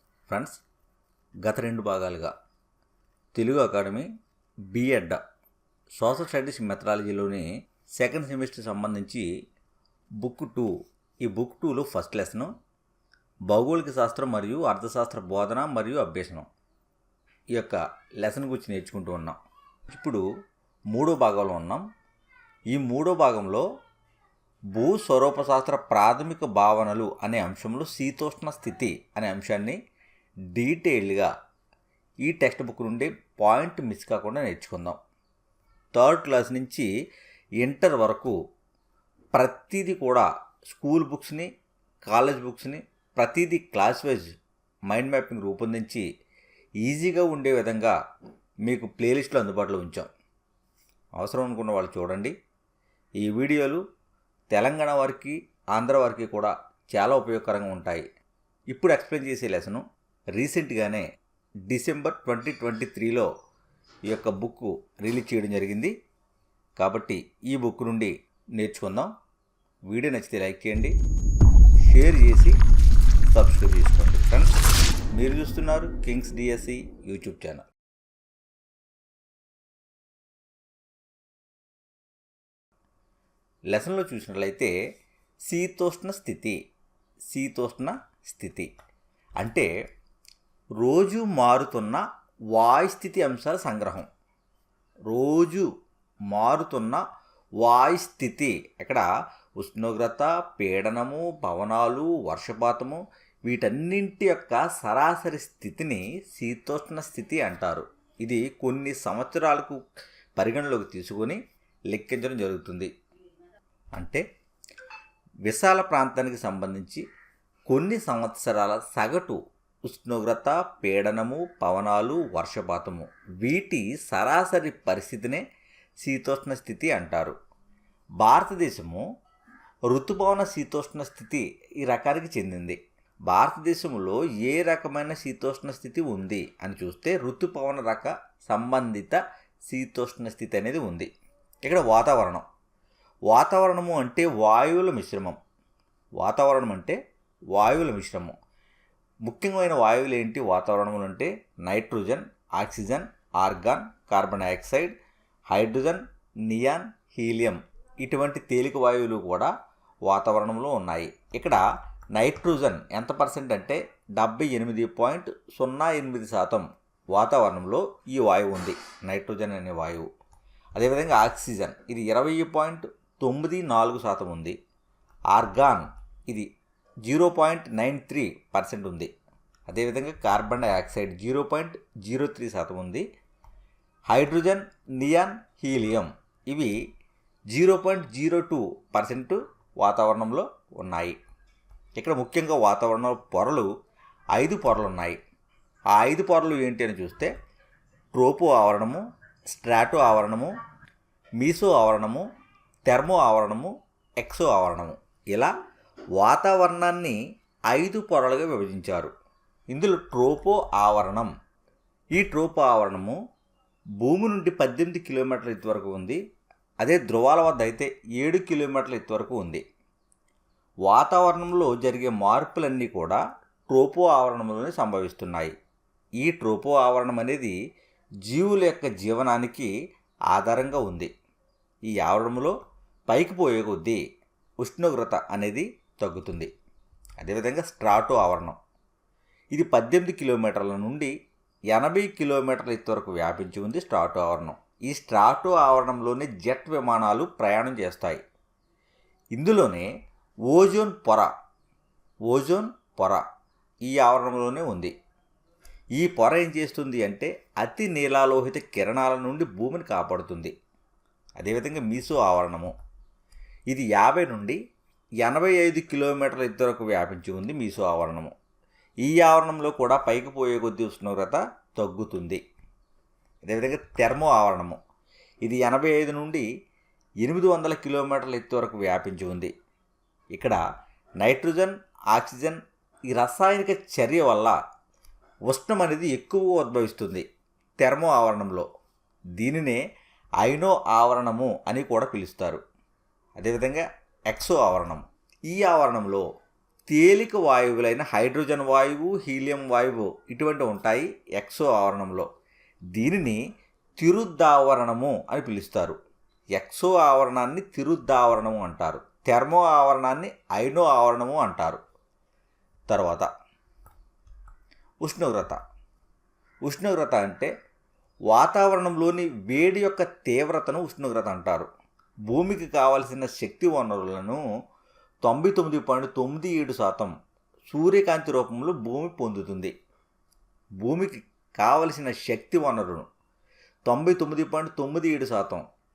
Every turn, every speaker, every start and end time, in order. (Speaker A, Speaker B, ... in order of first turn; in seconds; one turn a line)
Speaker A: 0.3-0.6
Speaker A: 1.4-2.3
Speaker A: 3.3-4.1
Speaker A: 4.7-5.2
Speaker A: 6.0-9.2
Speaker A: 10.2-10.7
Speaker A: 11.2-12.5
Speaker A: 13.5-16.5
Speaker A: 17.5-19.4
Speaker A: 19.9-20.2
Speaker A: 20.9-21.8
Speaker A: 22.7-23.6
Speaker A: 24.7-29.8
Speaker A: 30.5-31.3
Speaker A: 32.2-35.0
Speaker A: 35.9-36.9
Speaker A: 37.6-38.3
Speaker A: 39.3-41.5
Speaker A: 42.1-44.3
Speaker A: 44.9-46.0
Speaker A: 46.8-48.0
Speaker A: 48.6-50.1
Speaker A: 51.2-52.3
Speaker A: 53.2-53.8
Speaker A: 54.5-58.0
Speaker A: 58.7-59.8
Speaker A: 60.3-61.0
Speaker A: 61.7-63.3
Speaker A: 64.1-65.9
Speaker A: 66.8-69.1
Speaker A: 69.9-70.9
Speaker A: 71.8-72.6
Speaker A: 73.3-74.5
Speaker A: 75.1-77.7
Speaker A: 83.7-84.7
Speaker A: 85.5-86.6
Speaker A: 87.3-88.7
Speaker A: 89.4-89.7
Speaker A: 90.8-94.1
Speaker A: 95.1-95.7
Speaker A: 96.3-97.0
Speaker A: 97.6-99.1
Speaker A: 99.6-109.8
Speaker A: 110.4-111.4
Speaker A: 111.9-112.9
Speaker A: 114.0-114.2
Speaker A: 115.5-117.0
Speaker A: 117.7-125.4
Speaker A: 126.0-127.3
Speaker A: 128.2-129.0
Speaker A: 129.9-141.1
Speaker A: 141.6-142.4
Speaker A: 143.3-145.4
Speaker A: 146.2-147.0
Speaker A: 147.5-148.3
Speaker A: 149.2-154.9
Speaker A: 155.5-159.5
Speaker A: 160.1-161.6
Speaker A: 162.1-170.1
Speaker A: 170.7-174.5
Speaker A: 175.3-176.5
Speaker A: 177.0-179.1
Speaker A: 179.7-183.0
Speaker A: 184.1-186.7
Speaker A: 187.5-191.2
Speaker A: 192.0-193.7
Speaker A: 194.3-195.2
Speaker A: 195.9-197.3
Speaker A: 198.1-200.5
Speaker A: 201.4-202.2
Speaker A: 202.9-205.5
Speaker A: 206.2-207.2
Speaker A: 207.7-209.1
Speaker A: 209.7-211.3
Speaker A: 212.2-213.2
Speaker A: 214.0-216.2
Speaker A: 216.8-219.6
Speaker A: 220.9-225.5
Speaker A: 226.2-227.5
Speaker A: 228.2-229.7
Speaker A: 230.3-231.1
Speaker A: 231.9-232.5
Speaker A: 233.1-234.0
Speaker A: 234.6-236.5
Speaker A: 237.2-238.6
Speaker A: 239.5-241.1
Speaker A: 241.7-248.2
Speaker A: 249.3-249.9
Speaker A: 250.5-251.3
Speaker A: 252.3-253.2
Speaker A: 253.8-254.9
Speaker A: 256.0-260.5
Speaker A: 261.4-262.7
Speaker A: 263.7-264.6
Speaker A: 265.2-268.3
Speaker A: 269.0-272.4
Speaker A: 273.4-274.8
Speaker A: 275.4-276.4
Speaker A: 277.2-279.5
Speaker A: 280.3-280.6
Speaker A: 281.2-284.6
Speaker A: 285.5-287.2
Speaker A: 287.8-288.7
Speaker A: 289.4-289.8
Speaker A: 290.4-292.6
Speaker A: 293.4-296.2
Speaker A: 296.9-302.3
Speaker A: 302.9-303.4
Speaker A: 304.0-306.0
Speaker A: 306.6-311.8
Speaker A: 312.9-313.3
Speaker A: 315.0-315.6
Speaker A: 316.6-317.5
Speaker A: 318.3-321.7
Speaker A: 322.3-324.4
Speaker A: 325.2-327.1
Speaker A: 327.7-329.7
Speaker A: 330.8-333.1
Speaker A: 333.9-335.6